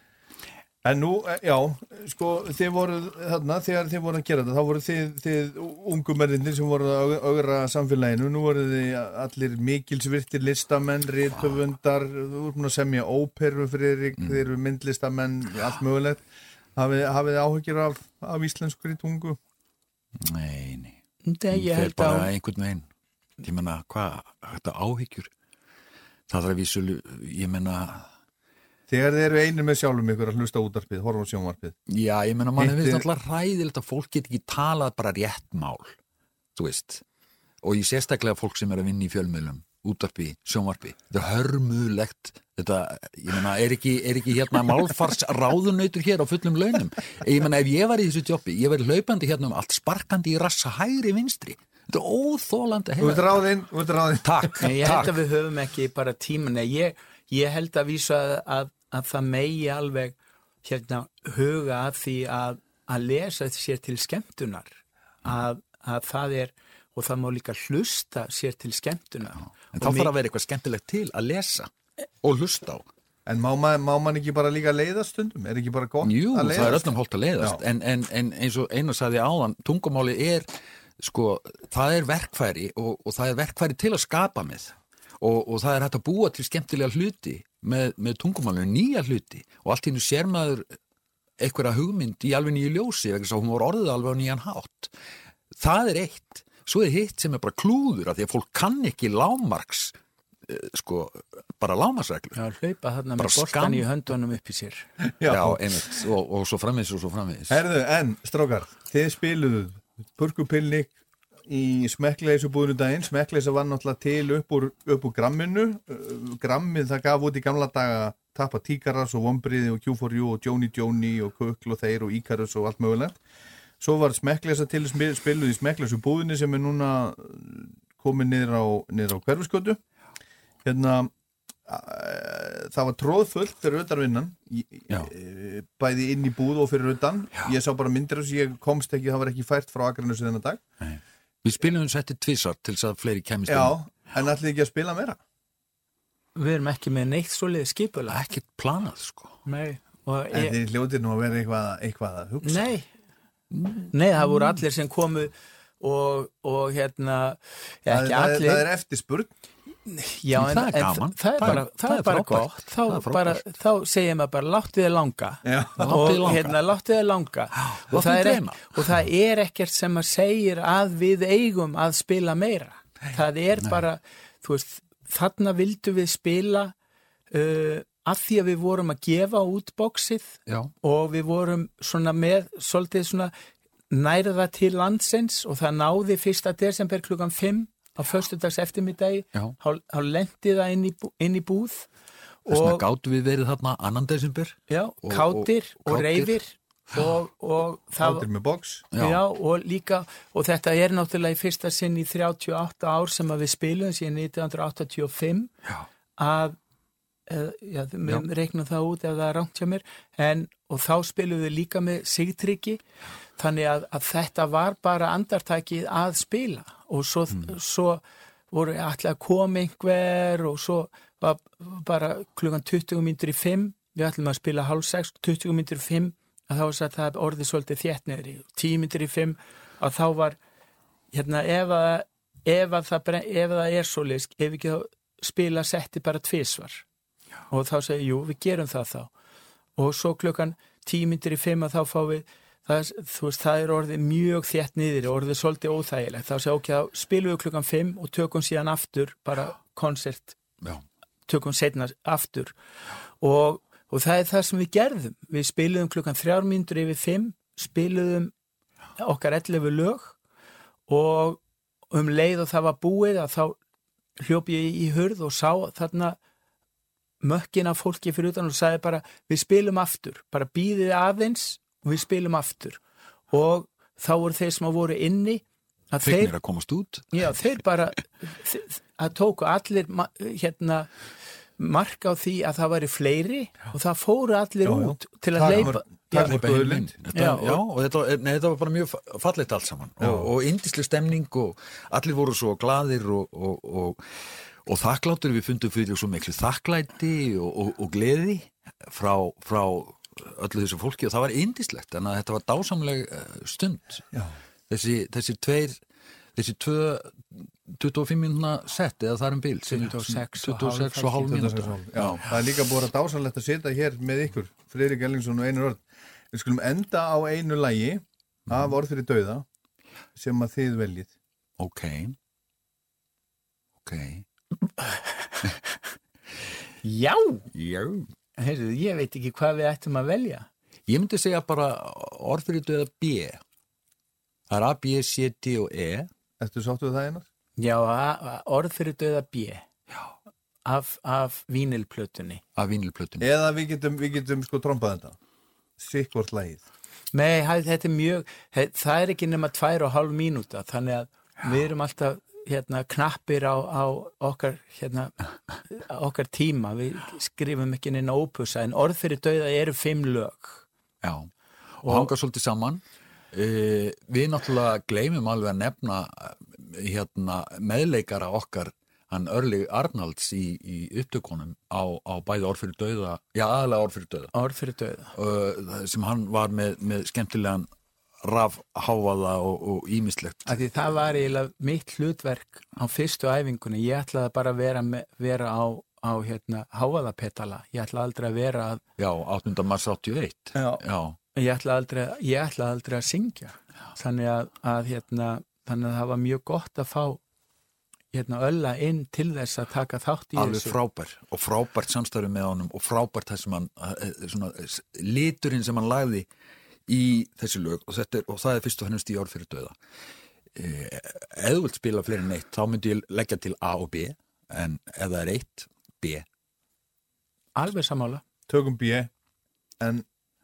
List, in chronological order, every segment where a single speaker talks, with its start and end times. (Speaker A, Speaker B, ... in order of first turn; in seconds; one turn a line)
Speaker A: 0.8-16.2
Speaker A: 16.8-19.4
Speaker B: 20.1-21.0
Speaker C: 21.2-22.3
Speaker B: 21.5-22.9
Speaker B: 23.4-25.3
Speaker B: 26.3-28.1
Speaker A: 28.9-31.7
Speaker B: 31.9-36.0
Speaker A: 32.6-33.0
Speaker B: 36.5-37.0
Speaker B: 37.6-53.5
Speaker A: 53.0-54.6
Speaker B: 54.2-55.1
Speaker C: 54.6-70.1
Speaker B: 69.4-72.9
Speaker A: 73.2-77.6
Speaker B: 76.0-80.5
Speaker B: 81.0-90.7
Speaker B: 91.4-95.0
Speaker B: 95.5-102.4
Speaker C: 102.3-104.9
Speaker B: 103.2-103.9
Speaker A: 105.1-105.8
Speaker B: 105.3-107.6
Speaker A: 107.5-110.9
Speaker A: 111.5-123.1
Speaker A: 123.8-129.8
Speaker A: 130.6-131.1
Speaker A: 131.7-140.6
Speaker B: 140.8-143.8
Speaker A: 143.5-145.2
Speaker C: 146.3-148.2
Speaker B: 148.1-149.4
Speaker C: 149.4-150.6
Speaker A: 150.3-152.7
Speaker C: 152.4-152.9
Speaker B: 153.5-154.6
Speaker C: 153.9-158.7
Speaker A: 157.9-159.3
Speaker C: 159.9-176.7
Speaker B: 160.3-163.5
Speaker A: 165.4-166.1
Speaker B: 165.8-166.6
Speaker B: 167.6-168.9
Speaker C: 177.3-183.3
Speaker B: 180.5-180.7
Speaker C: 183.9-191.9
Speaker C: 192.4-192.8
Speaker B: 192.5-196.4
Speaker C: 194.7-198.2
Speaker A: 198.0-198.8
Speaker B: 198.9-199.2
Speaker C: 199.0-205.5
Speaker C: 206.2-206.6
Speaker C: 207.3-212.8
Speaker C: 213.4-230.4
Speaker C: 231.1-236.8
Speaker C: 237.5-239.1
Speaker C: 239.8-250.4
Speaker C: 251.3-252.5
Speaker C: 253.2-258.3
Speaker C: 259.0-260.2
Speaker C: 260.9-263.6
Speaker C: 264.2-266.2
Speaker C: 267.2-276.3
Speaker B: 276.0-277.1
Speaker C: 277.1-280.9
Speaker C: 281.6-286.3
Speaker A: 284.6-286.9
Speaker B: 285.4-304.0
Speaker C: 287.1-287.6
Speaker A: 290.0-290.3
Speaker B: 304.7-305.8
Speaker B: 306.3-312.3
Speaker C: 309.6-311.5
Speaker A: 311.4-319.4
Speaker B: 318.5-318.7
Speaker A: 320.1-321.1
Speaker B: 321.6-322.1
Speaker B: 323.8-324.2
Speaker C: 326.8-327.5
Speaker B: 327.5-328.1
Speaker C: 328.4-330.5
Speaker B: 330.9-333.4
Speaker B: 334.5-336.1
Speaker A: 336.4-337.2
Speaker C: 337.6-339.6
Speaker C: 340.6-342.4
Speaker B: 342.5-343.3
Speaker A: 343.2-345.1
Speaker A: 345.8-346.6
Speaker C: 347.1-355.1
Speaker C: 355.7-360.6
Speaker B: 361.0-361.3
Speaker B: 361.8-374.3
Speaker C: 361.8-362.1
Speaker C: 374.3-375.1
Speaker B: 375.1-377.7
Speaker B: 378.2-380.6
Speaker C: 380.4-388.8
Speaker B: 389.0-391.2
Speaker C: 391.3-397.2
Speaker C: 398.1-400.8
Speaker B: 400.4-406.3
Speaker B: 406.9-409.8
Speaker B: 410.5-416.2
Speaker C: 417.6-418.2
Speaker A: 418.5-419.1